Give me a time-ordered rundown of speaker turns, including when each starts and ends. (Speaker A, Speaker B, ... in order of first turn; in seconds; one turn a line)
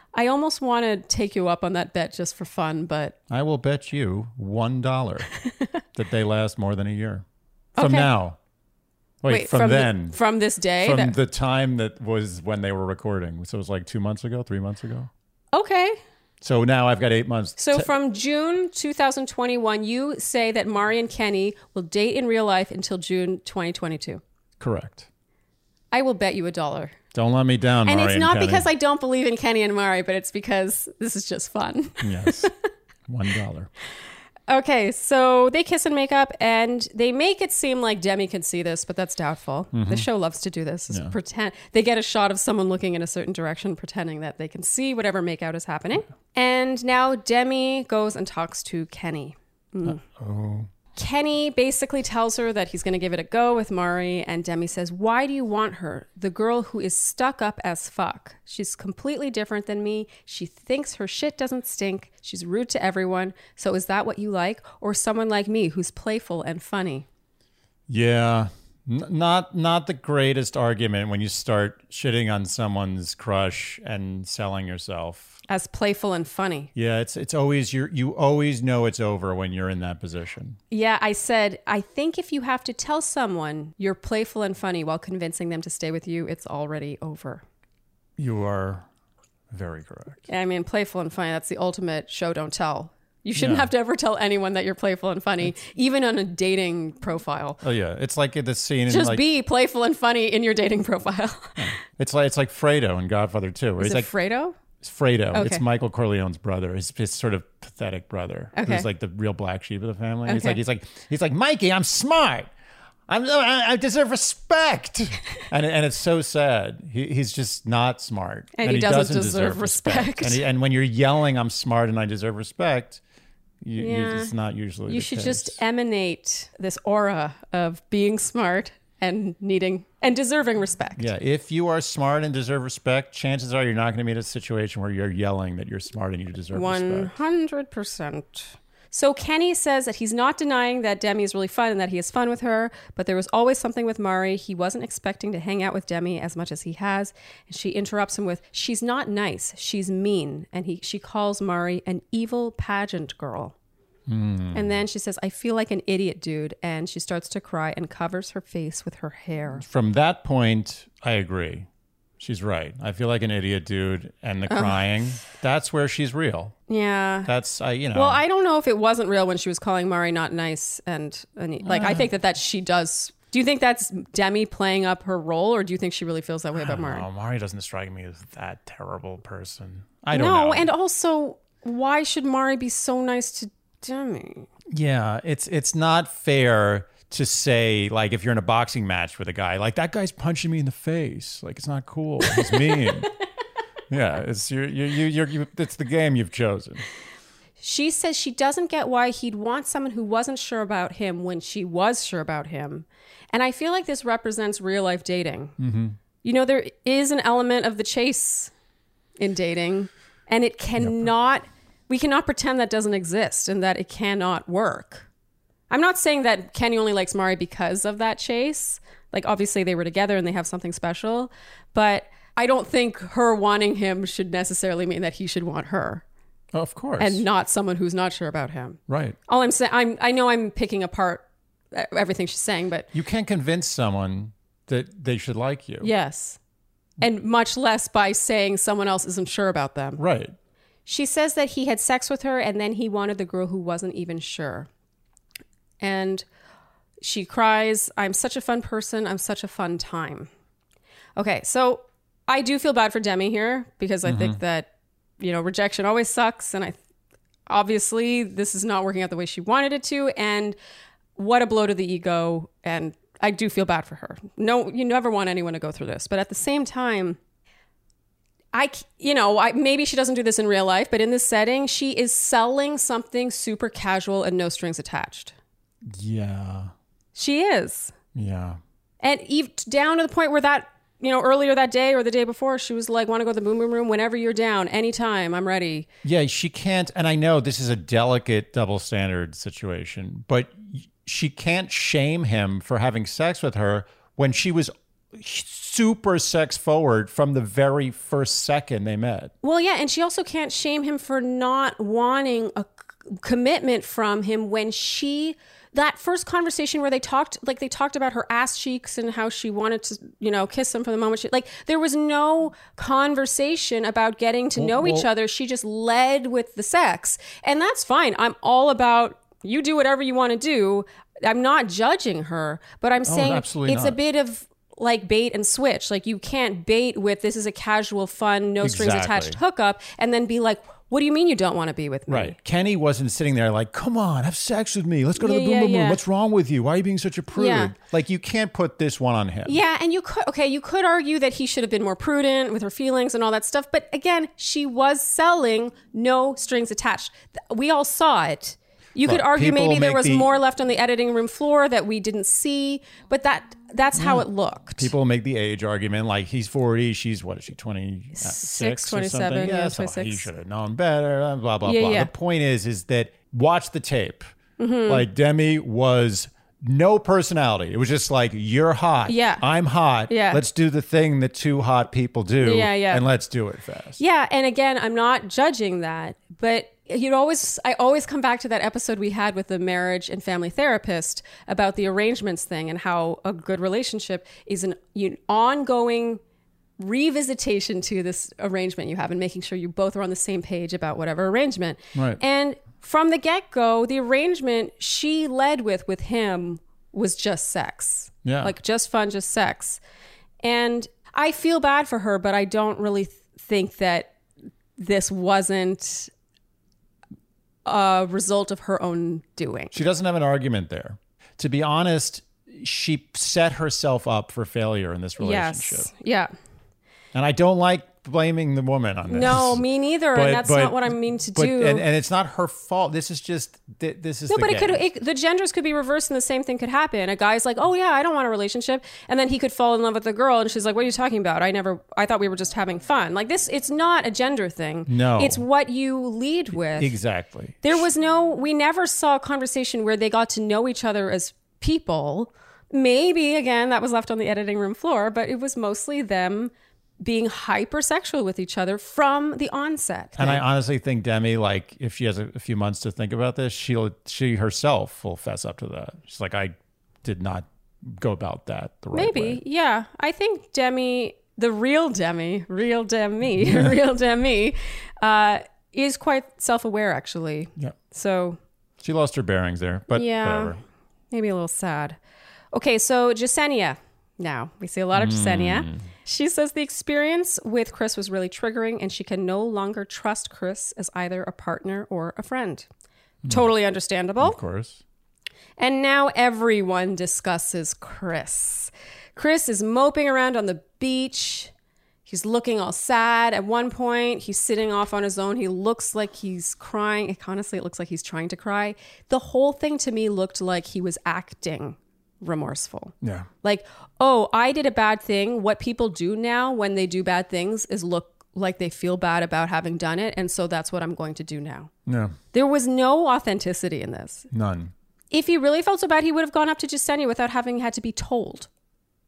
Speaker A: 0.1-3.2
Speaker B: 3.3-5.3
Speaker B: 6.0-7.2
Speaker A: 7.8-8.1
Speaker B: 7.8-8.4
Speaker B: 9.2-10.2
Speaker A: 9.3-11.2
Speaker B: 10.8-15.1
Speaker A: 15.5-16.0
Speaker B: 16.4-17.9
Speaker A: 17.6-24.2
Speaker B: 24.6-25.1
Speaker A: 25.9-27.0
Speaker B: 27.1-28.7
Speaker A: 27.9-32.5
Speaker B: 32.0-32.5
Speaker B: 33.1-33.7
Speaker A: 34.5-50.0
Speaker B: 39.7-40.1
Speaker B: 49.9-50.7
Speaker A: 51.0-67.1
Speaker B: 67.9-75.4
Speaker A: 75.5-76.7
Speaker B: 76.8-80.6
Speaker A: 80.7-87.4
Speaker B: 88.2-88.9
Speaker B: 89.5-90.3
Speaker A: 90.3-97.6
Speaker B: 93.4-93.7
Speaker B: 97.6-99.2
Speaker A: 98.9-101.7
Speaker B: 101.6-104.1
Speaker A: 103.8-104.6
Speaker B: 104.8-112.5
Speaker A: 105.3-105.6
Speaker A: 108.5-108.9
Speaker A: 110.3-110.6
Speaker B: 113.1-123.0
Speaker A: 118.6-120.4
Speaker B: 123.6-125.6
Speaker A: 123.8-124.3
Speaker A: 124.9-131.1
Speaker B: 131.0-137.2
Speaker A: 136.5-153.6
Speaker B: 154.1-154.7
Speaker A: 154.5-159.6
Speaker B: 159.6-161.7
Speaker B: 162.2-166.6
Speaker A: 164.5-164.8
Speaker A: 166.7-167.3
Speaker B: 167.3-168.2
Speaker A: 167.9-177.1
Speaker B: 171.6-172.1
Speaker B: 176.6-180.7
Speaker A: 180.1-184.5
Speaker B: 184.7-193.1
Speaker A: 192.4-192.9
Speaker B: 193.9-196.8
Speaker A: 197.6-205.6
Speaker B: 205.6-206.0
Speaker A: 206.2-208.5
Speaker A: 209.2-215.1
Speaker B: 210.8-211.1
Speaker A: 215.7-226.0
Speaker B: 226.5-227.2
Speaker A: 227.0-232.9
Speaker B: 228.9-229.2
Speaker B: 232.9-235.9
Speaker A: 235.8-236.4
Speaker A: 237.0-240.0
Speaker B: 240.0-240.3
Speaker A: 240.9-244.7
Speaker A: 245.8-246.3
Speaker A: 247.0-250.3
Speaker A: 251.2-256.8
Speaker B: 254.1-254.4
Speaker A: 257.5-260.6
Speaker A: 261.2-267.2
Speaker A: 268.5-275.4
Speaker B: 275.9-276.7
Speaker A: 277.1-277.9
Speaker B: 278.1-278.6
Speaker A: 279.0-285.9
Speaker B: 286.0-299.3
Speaker A: 299.4-332.4
Speaker B: 314.6-315.1
Speaker B: 323.1-324.0
Speaker B: 328.6-329.4
Speaker B: 332.1-339.6
Speaker A: 335.2-336.0
Speaker A: 337.4-337.7
Speaker A: 339.4-354.9
Speaker B: 349.0-350.3
Speaker B: 353.9-364.3
Speaker A: 358.2-360.3
Speaker A: 361.6-362.1
Speaker A: 364.6-365.1
Speaker B: 364.9-374.0
Speaker A: 369.1-369.4
Speaker A: 370.1-370.4
Speaker A: 372.4-373.1
Speaker A: 374.0-386.2
Speaker A: 386.8-399.8
Speaker B: 391.9-392.2
Speaker B: 398.2-398.5
Speaker A: 400.4-404.1
Speaker A: 404.8-406.1
Speaker A: 407.7-409.8
Speaker B: 409.7-415.9
Speaker A: 415.2-416.3
Speaker B: 417.1-424.8
Speaker A: 419.1-421.8
Speaker A: 424.3-436.9
Speaker B: 434.9-435.4
Speaker B: 436.8-437.8
Speaker A: 437.6-450.4
Speaker B: 450.2-459.4
Speaker A: 458.9-468.4
Speaker B: 463.4-463.7
Speaker B: 468.8-470.6
Speaker A: 469.9-470.6
Speaker A: 471.1-472.0
Speaker A: 472.5-482.7
Speaker B: 474.9-475.9
Speaker A: 483.3-484.4
Speaker B: 484.2-484.8
Speaker A: 485.6-491.5
Speaker A: 492.1-511.7
Speaker B: 503.0-503.3
Speaker B: 511.9-512.1
Speaker A: 512.3-514.3
Speaker B: 514.3-514.7
Speaker A: 515.1-518.5